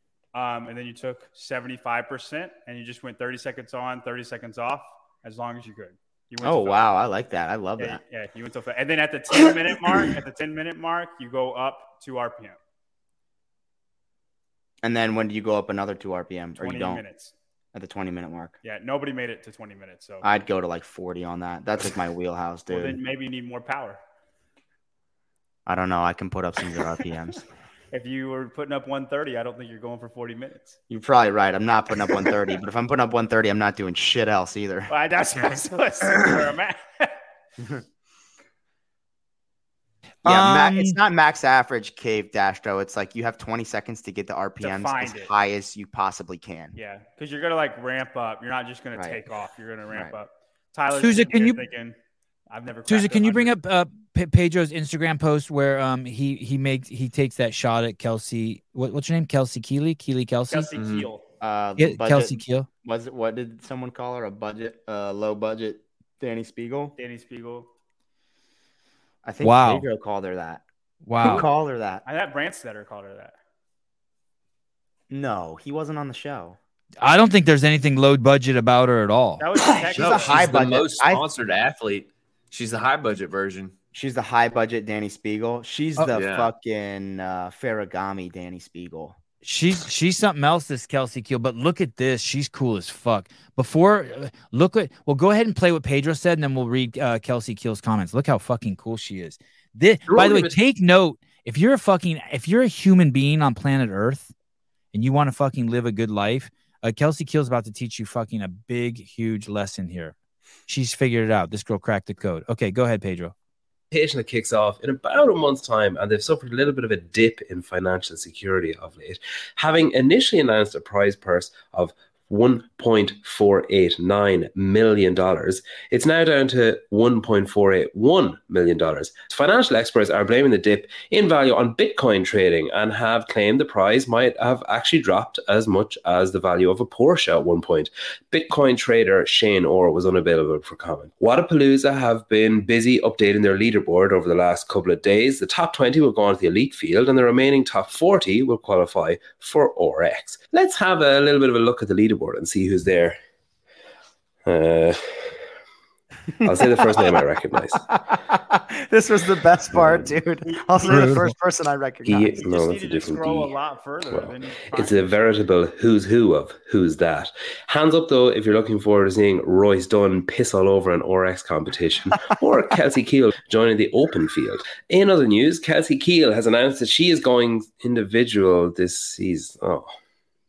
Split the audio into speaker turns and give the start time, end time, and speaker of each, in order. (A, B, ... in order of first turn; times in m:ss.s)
0:00.3-0:06.9 A
0:06.4-0:08.0 B
0:07.8-0:12.6 A
0:14.8-0:17.0 B
0:16.6-0:17.3 A
0:17.7-0:18.6 B
0:18.6-0:20.3 A
0:20.2-0:23.0 B
0:22.7-0:24.0 A
0:25.7-0:27.4 B
0:27.9-0:30.8 A
0:30.9-0:34.9 B
0:34.9-0:37.2 A
0:40.2-0:41.0 C
0:40.2-0:46.8 B
0:44.6-0:45.3 A
0:46.8-0:52.0 A
0:49.0-0:49.2 B
0:49.9-0:50.2 B
0:50.9-0:51.6 C
0:52.5-0:53.5 A
0:52.9-1:00.7 C
1:00.5-1:01.2 A
1:00.8-1:01.1 D
1:01.4-1:07.0 B
1:01.8-1:02.7 C
1:07.0-1:07.7 A
1:09.2-1:10.6 B
1:09.4-1:09.9 C
1:11.0-1:11.5 C
1:11.2-1:12.0 B
1:12.0-1:13.4 A
1:15.1-1:16.6 B
1:17.0-1:19.4 C
1:19.4-1:20.5 A
1:19.8-1:23.7 D
1:19.9-1:21.2 B
1:23.9-1:29.2 B
1:26.1-1:26.5 D
1:29.4-1:44.3 C
1:40.1-1:40.4 E
1:44.9-1:50.2 C
1:50.7-1:53.3 C
1:53.9-2:33.2 E
2:34.5-2:35.3 E
2:36.4-2:37.8 E
2:36.4-2:37.2 B
2:38.2-2:42.4 B
2:39.8-2:40.1 E
2:40.4-2:41.1 A
2:40.9-2:41.3 C
2:42.0-2:43.5 E
2:42.4-2:45.1 A
2:44.1-3:00.0 E